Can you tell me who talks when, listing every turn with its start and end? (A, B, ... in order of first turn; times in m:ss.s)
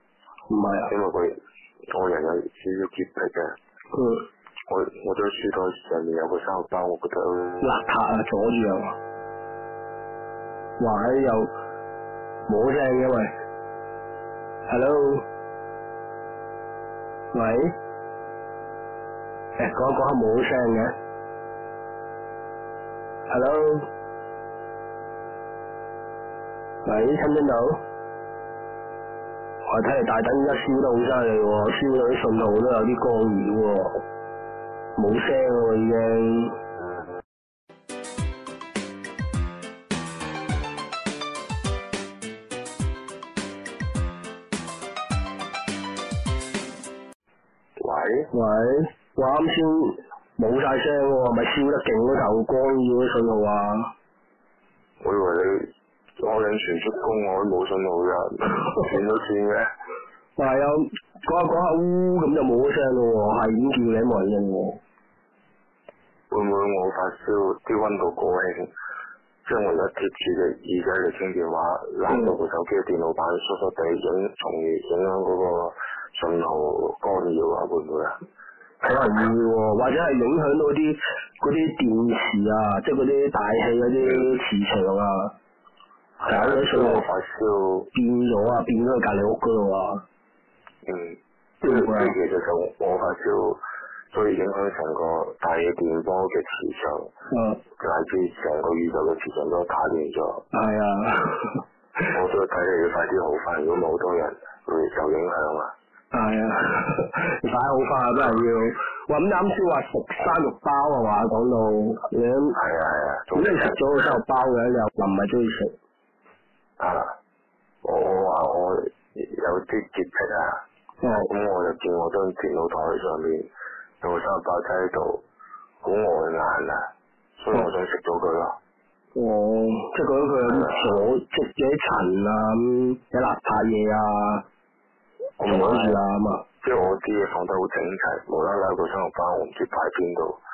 0:00.5-0:00.9 A
0:00.9-0:01.4 B
0:01.9-0:03.5 B
0:03.9-0:04.3 A
0:04.7-0:07.6 B
0:07.6-0:09.0 A
0:10.8-0:11.5 A
0:12.5-0:13.3 A
0:14.7-0:15.3 A
0:17.3-0:17.7 A
0:19.6-0:20.9 A
0:23.3-0:23.9 A
0:26.8-0:27.8 A
0:29.7-0:34.0 A
0:35.0-0:36.6 A
0:47.8-0:48.3 B
0:48.3-0:53.9 A
0:55.0-0:59.7 B
1:00.4-1:04.8 A
1:06.3-1:08.7 B
1:09.4-1:18.2 B
1:12.1-1:12.4 A
1:18.8-1:25.3 A
1:26.2-1:27.9 B
1:26.3-1:27.0 A
1:27.9-1:30.0 A
1:30.8-1:37.1 B
1:31.6-1:32.1 A
1:37.3-1:37.6 A
1:37.8-1:40.5 B
1:40.5-1:41.6 A
1:42.1-1:45.7 B
1:46.1-1:52.6 A
1:52.6-1:53.8 B
1:53.4-1:55.7 A
1:56.8-1:57.1 B
1:57.8-2:00.6 B
2:01.0-2:01.3 A
2:01.1-2:03.5 B
2:04.0-2:05.2 B
2:05.8-2:06.9 B
2:07.4-2:08.6 B
2:09.2-2:14.4 A
2:10.5-2:11.0 B
2:15.4-2:16.0 B
2:15.4-2:16.4 A
2:16.6-2:20.4 B